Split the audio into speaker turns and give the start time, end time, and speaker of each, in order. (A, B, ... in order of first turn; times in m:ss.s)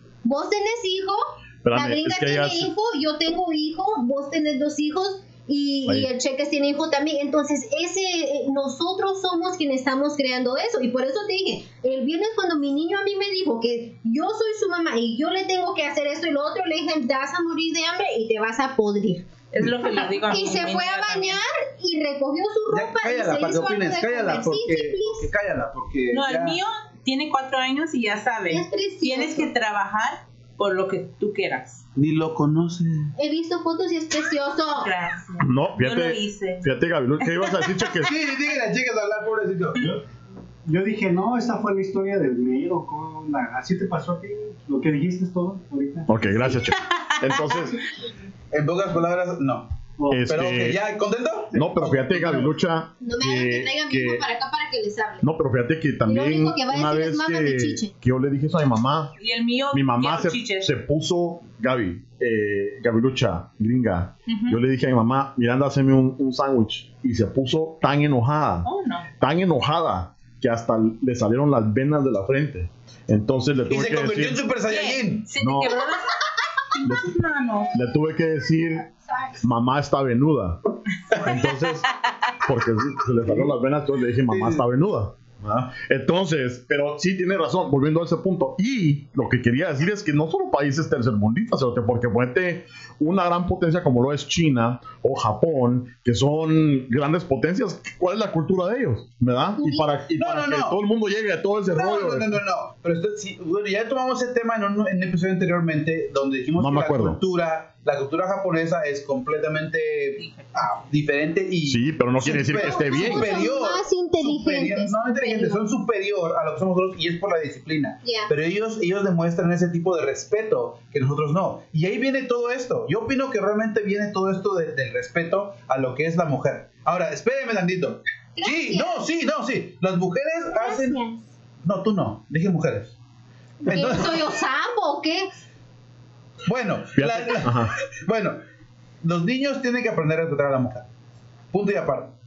0:00.2-0:19.3 A
0:01.6-0:02.7 B
0:19.5-0:21.4 C
0:19.6-0:20.0 D
0:20.3-0:25.3 A
0:22.7-0:26.6 D
0:26.1-0:31.8 C
0:28.5-0:29.5 A
0:32.0-0:33.1 D
0:33.2-0:34.9 A
0:34.8-0:36.6 C
0:35.4-0:38.1 B
0:37.3-0:37.9 C
0:38.0-0:39.8 D
0:39.8-0:40.0 E
0:40.6-0:46.6 E
0:46.1-0:47.8 B
0:46.8-0:47.6 C
0:48.5-0:49.7 D
0:50.0-0:50.3 E
0:50.1-0:50.8 B
0:50.3-0:52.5 D
0:51.5-0:54.2 B
0:53.0-0:55.3 A
0:55.2-0:59.1 B
0:56.0-0:57.9 A
0:59.2-1:00.7 C
0:59.7-1:08.7 B
1:04.3-1:04.6 C
1:08.6-1:09.1 C
1:09.2-1:14.4 B
1:13.6-1:15.2 D
1:14.7-1:17.7 C
1:15.4-1:15.8 B
1:16.8-1:17.1 B
1:17.7-1:18.8 B
1:19.4-1:20.6 B
1:21.1-1:21.9 B
1:22.4-1:25.2 B
1:24.3-1:24.6 D
1:25.4-1:25.7 D
1:25.7-1:42.4 B
1:39.6-1:40.0 A
1:40.2-1:40.8 D
1:41.7-2:11.0 D
1:46.6-1:47.2 B
1:50.2-1:50.7 C
1:51.6-1:53.4 B
1:52.6-1:55.6 A
1:58.0-1:58.3 A
2:08.4-2:08.9 A
2:10.5-2:11.2 A
2:11.6-2:12.9 D
2:13.6-2:15.3 A
2:13.7-2:14.3 D
2:16.4-2:18.4 D
2:16.9-2:17.7 B
2:19.0-2:20.9 D
2:21.5-2:22.1 D